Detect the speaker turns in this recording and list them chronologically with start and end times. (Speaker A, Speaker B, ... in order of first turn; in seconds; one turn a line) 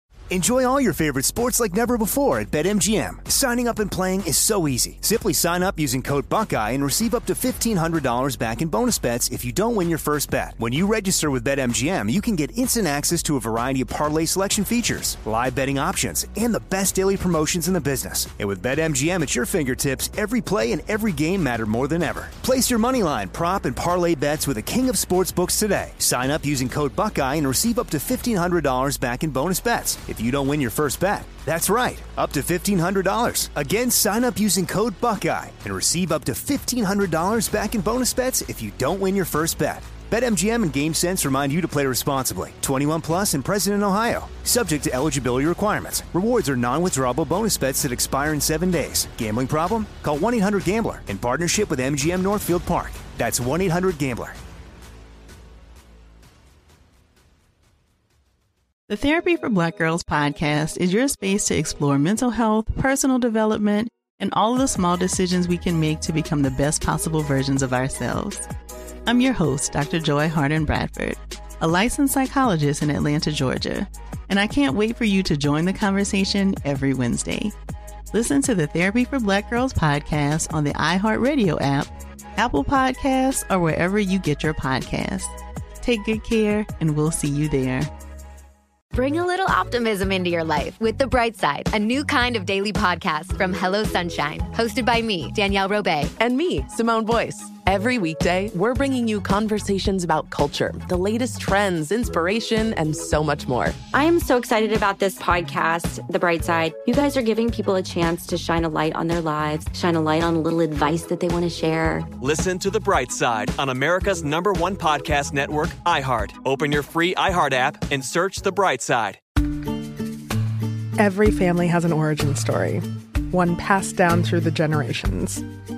Speaker A: 0.3-54.4
Speaker B: 58.9-68.4
Speaker B: 69.0-77.5
Speaker B: 78.1-85.3
Speaker B: 85.8-87.9
Speaker C: 88.9-96.1
Speaker D: 96.2-103.8
Speaker E: 103.9-112.1
Speaker F: 112.2-119.2
Speaker G: 121.0-125.4